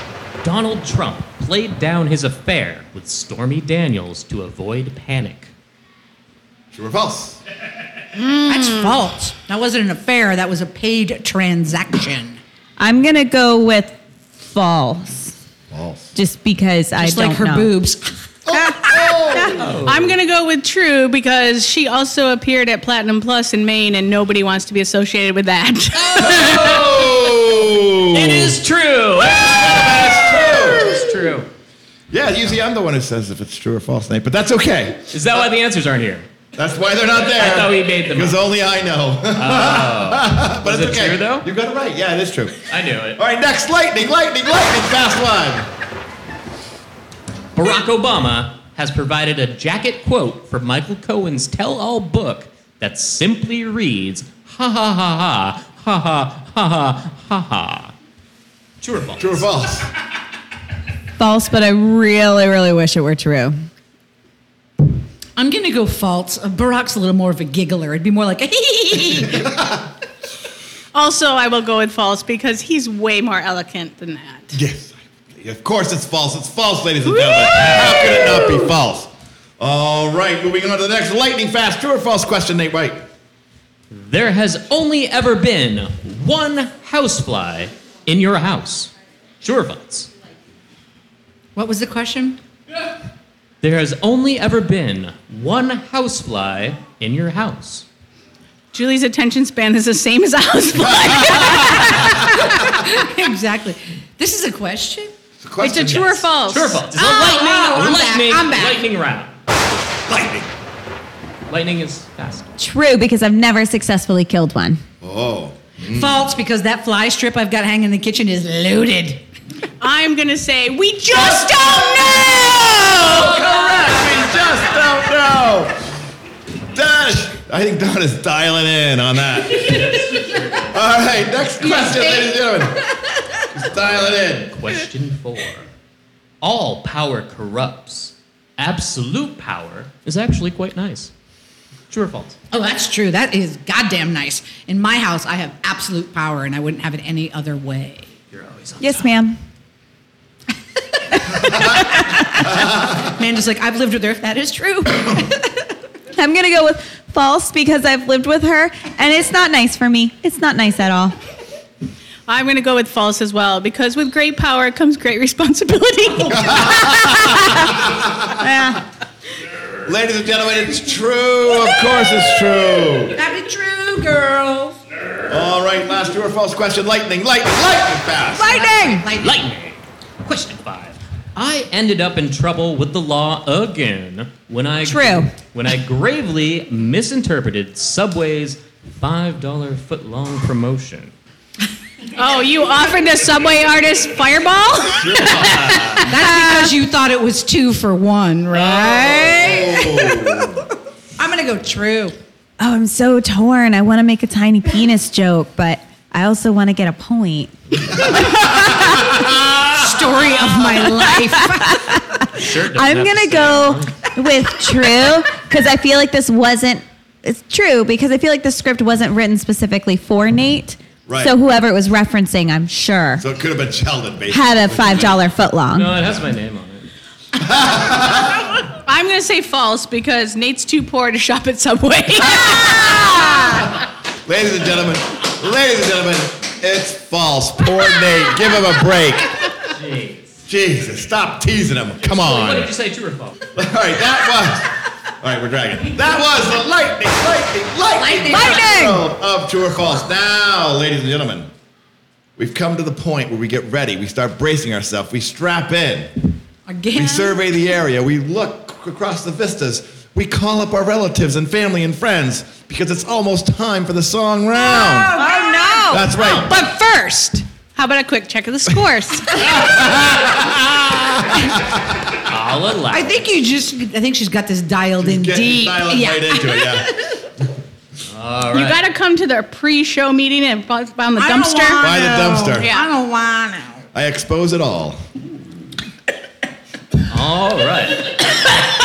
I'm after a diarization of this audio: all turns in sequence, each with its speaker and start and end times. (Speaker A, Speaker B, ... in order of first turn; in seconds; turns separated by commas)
Speaker A: 0.4-5.5, Speaker B: 6.7-7.4, Speaker C: 8.2-12.4, Speaker D: 8.5-8.9, Speaker E: 12.8-15.3, Speaker B: 15.7-16.1, Speaker E: 16.1-17.7, Speaker C: 17.0-18.1, Speaker B: 18.5-19.8, Speaker A: 19.6-20.1, Speaker D: 19.8-26.4, Speaker A: 26.0-27.1, Speaker B: 26.2-28.6, Speaker A: 28.1-31.5, Speaker B: 29.2-31.0, Speaker B: 32.1-35.4, Speaker A: 35.1-36.3, Speaker B: 36.5-45.7, Speaker A: 37.3-38.4, Speaker A: 39.4-41.5, Speaker A: 42.7-43.2, Speaker A: 47.6-57.9, Speaker A: 58.8-59.5, Speaker B: 59.2-59.9, Speaker E: 61.2-63.6, Speaker C: 65.4-69.6, Speaker B: 69.5-69.8, Speaker D: 70.9-74.6, Speaker B: 74.5-83.0, Speaker A: 83.9-88.9, Speaker A: 89.4-90.1, Speaker C: 91.6-92.4, Speaker A: 93.6-97.9, Speaker D: 98.7-102.3, Speaker B: 100.8-102.7, Speaker C: 102.5-105.1, Speaker B: 105.4-106.3, Speaker D: 105.6-107.0, Speaker A: 106.4-109.3, Speaker C: 107.0-108.9, Speaker B: 110.1-110.5, Speaker A: 111.5-112.5, Speaker E: 112.6-114.8, Speaker B: 115.0-116.3, Speaker C: 115.9-119.2, Speaker D: 119.8-123.3, Speaker B: 121.1-125.8, Speaker A: 123.8-124.2, Speaker B: 126.7-132.9, Speaker C: 131.8-132.2, Speaker B: 133.5-134.6, Speaker A: 133.7-135.7, Speaker A: 136.4-141.1, Speaker A: 141.9-142.4, Speaker C: 142.5-148.1, Speaker A: 148.3-149.1, Speaker E: 148.8-149.4, Speaker C: 151.5-155.6, Speaker E: 156.2-161.2, Speaker D: 162.3-167.2, Speaker B: 166.3-168.6, Speaker E: 168.4-168.8, Speaker B: 169.8-173.2, Speaker C: 173.1-174.8, Speaker B: 175.3-178.5, Speaker C: 178.4-179.4, Speaker E: 178.4-179.1, Speaker A: 179.2-191.1, Speaker E: 184.8-185.3, Speaker D: 192.2-195.8, Speaker B: 195.0-195.8, Speaker A: 195.4-196.1, Speaker C: 196.0-200.6, Speaker E: 196.3-196.7, Speaker A: 198.6-199.3, Speaker B: 199.2-200.7, Speaker C: 201.2-202.2, Speaker E: 202.6-209.1, Speaker B: 208.1-209.6, Speaker C: 209.7-212.0, Speaker E: 211.6-223.2, Speaker A: 212.3-214.1, Speaker B: 221.1-221.3, Speaker B: 223.2-225.2, Speaker E: 224.3-226.0, Speaker A: 225.8-226.9, Speaker B: 227.4-228.5, Speaker D: 228.7-232.9, Speaker B: 232.2-239.5, Speaker A: 239.7-240.3, Speaker B: 240.5-242.7, Speaker A: 242.0-243.4, Speaker B: 243.5-251.5, Speaker C: 247.9-249.0, Speaker E: 248.3-248.9, Speaker B: 252.4-256.3, Speaker C: 256.7-257.4, Speaker B: 256.9-265.2, Speaker C: 264.6-267.3, Speaker E: 265.2-266.0, Speaker B: 265.9-266.5, Speaker D: 266.2-269.6, Speaker B: 269.4-272.2, Speaker A: 272.2-273.3, Speaker C: 272.9-277.1, Speaker B: 275.0-276.9, Speaker A: 278.1-278.8, Speaker D: 278.5-281.9, Speaker C: 281.2-283.8, Speaker B: 281.8-282.7, Speaker D: 282.6-282.9, Speaker B: 283.9-285.0, Speaker A: 287.1-288.4